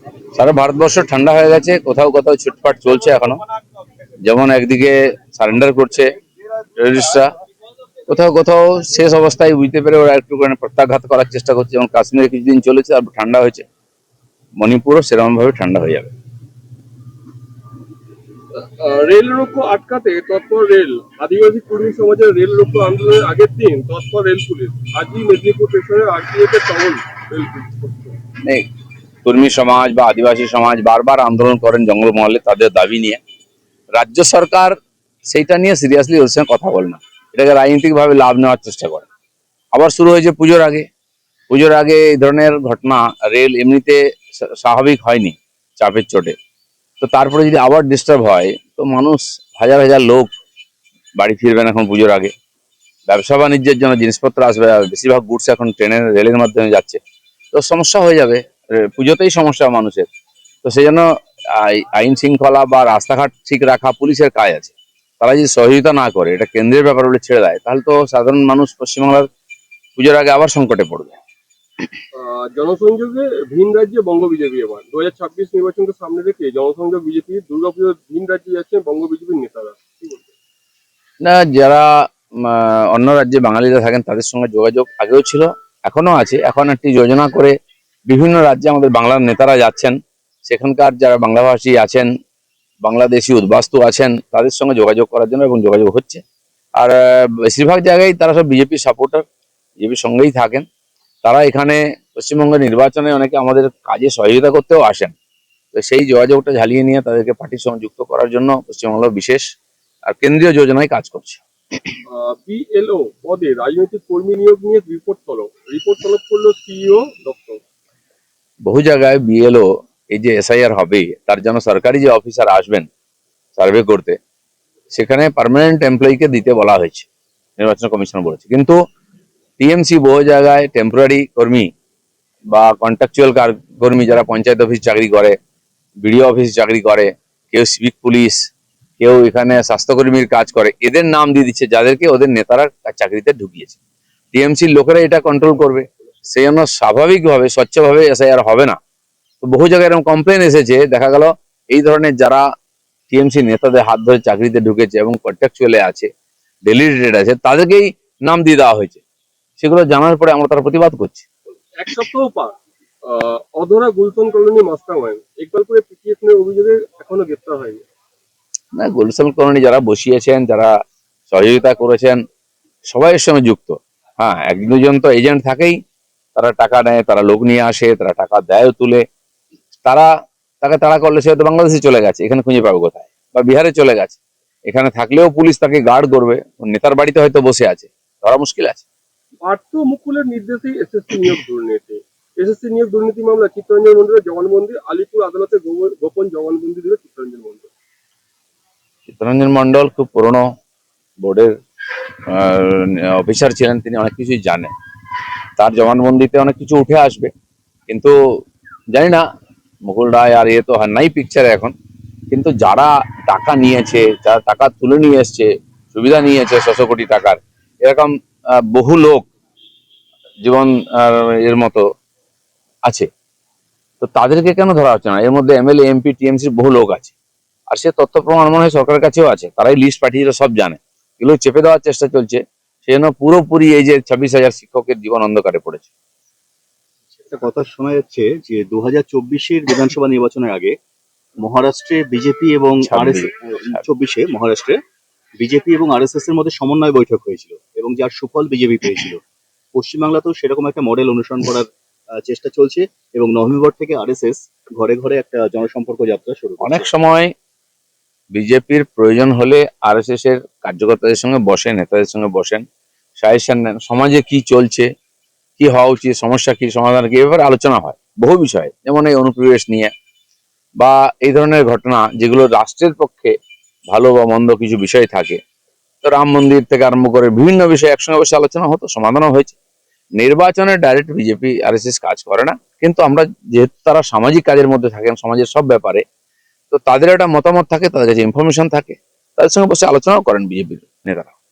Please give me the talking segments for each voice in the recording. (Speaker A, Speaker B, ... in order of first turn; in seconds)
Speaker A: 0.3-3.4, 4.2-6.2, 6.8-7.3, 8.1-13.7, 14.6-16.1, 29.2-33.2, 34.0-39.1, 39.7-40.9, 41.5-46.4, 47.0-50.3, 51.2-52.3, 53.1-57.0, 57.5-60.1, 60.6-69.3, 70.0-71.2, 81.2-87.5, 88.1-92.1, 92.8-96.2, 96.8-99.2, 99.8-100.7, 101.2-105.2, 105.7-109.4, 110.1-111.4, 118.7-122.9, 123.6-124.2, 124.9-128.8, 129.6-131.7, 132.5-135.4, 136.0-138.4, 139.0-143.8, 144.3-148.8, 149.4-152.4, 153.1-156.1, 156.7-159.0, 159.6-161.2, 168.8-170.7, 171.3-172.2, 172.9-175.8, 176.3-179.0, 179.8-180.1, 180.6-188.9, 199.1-200.5, 201.2-201.6, 202.3-204.7, 205.6-207.3, 207.9-208.2, 208.9-209.2, 209.9-211.7, 212.3-219.2, 220.4-221.8, 224.0-227.1, 227.7-235.9, 242.9-243.8, 256.6-257.3, 258.3-262.6, 263.2-264.9, 265.6-269.9, 270.8-273.3, 273.9-275.4, 276.0-279.6, 280.2-286.0, 286.7-291.3
Speaker B: 18.6-28.2, 72.1-80.3, 112.1-117.6, 161.8-167.8, 189.4-197.7
Speaker C: 237.3-240.8, 241.4-244.8, 245.4-249.2, 249.8-251.7, 252.2-256.9